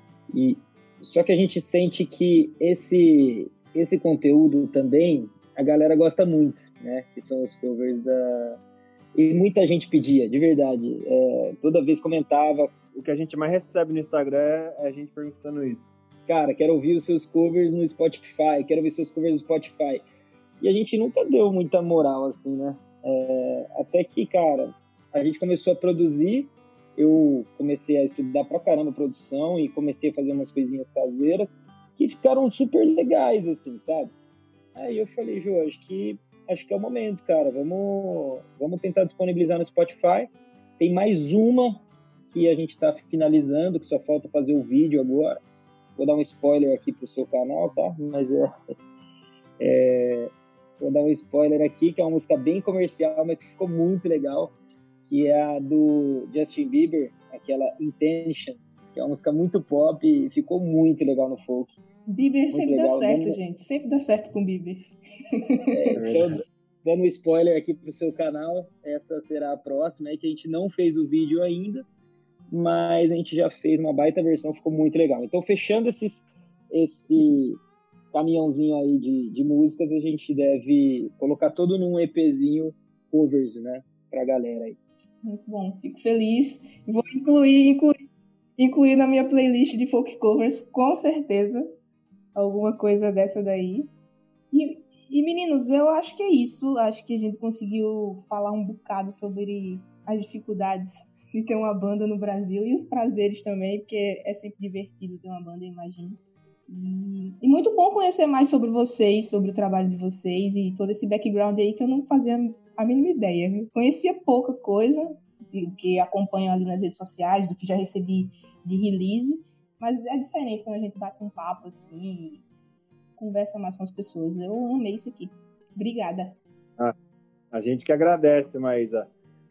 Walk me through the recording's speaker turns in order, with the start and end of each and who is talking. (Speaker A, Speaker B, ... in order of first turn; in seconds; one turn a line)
Speaker A: 0.3-8.6
Speaker A: 9.2-12.7
Speaker B: 12.9-16.0
Speaker A: 16.3-20.1
Speaker A: 20.6-34.1
Speaker A: 34.8-45.4
Speaker A: 46.0-48.7
Speaker A: 49.6-54.5
Speaker A: 55.1-61.8
Speaker C: 62.1-65.6
Speaker A: 62.5-63.4
Speaker A: 65.7-71.8
Speaker B: 66.0-66.3
Speaker A: 72.5-77.6
Speaker A: 78.1-84.8
Speaker C: 85.2-88.0
Speaker C: 88.6-91.7
Speaker C: 92.3-93.9
Speaker C: 94.5-122.5
Speaker C: 123.2-126.4
Speaker B: 127.5-129.1